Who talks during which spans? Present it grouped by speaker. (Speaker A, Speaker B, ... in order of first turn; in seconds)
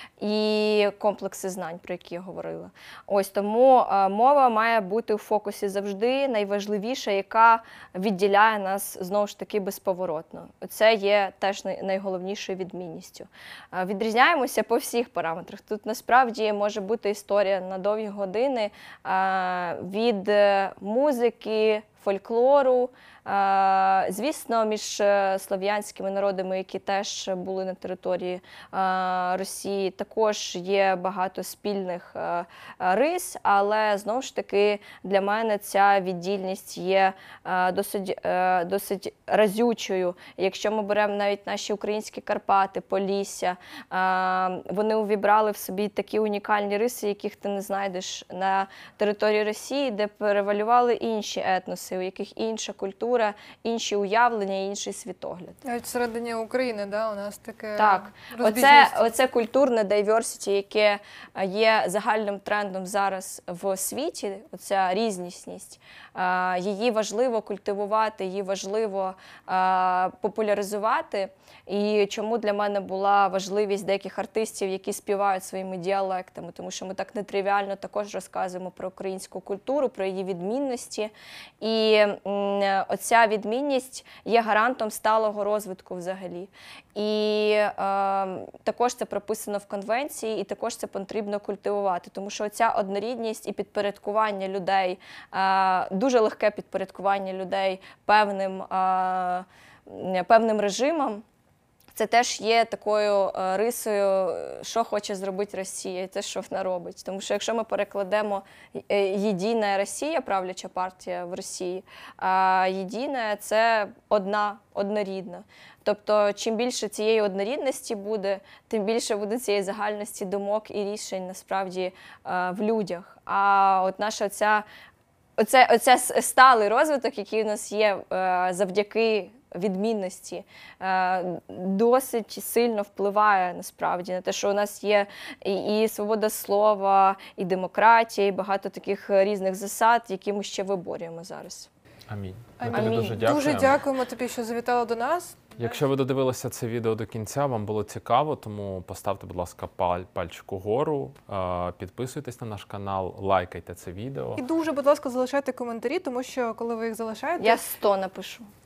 Speaker A: 0.2-55.6, 57.8-101.2, 101.9-124.7, 125.4-141.7, 142.7-143.5, 157.4-158.5
Speaker B: 55.6-59.0, 142.6-145.8, 154.3-157.6
Speaker C: 142.1-143.8, 145.6-154.4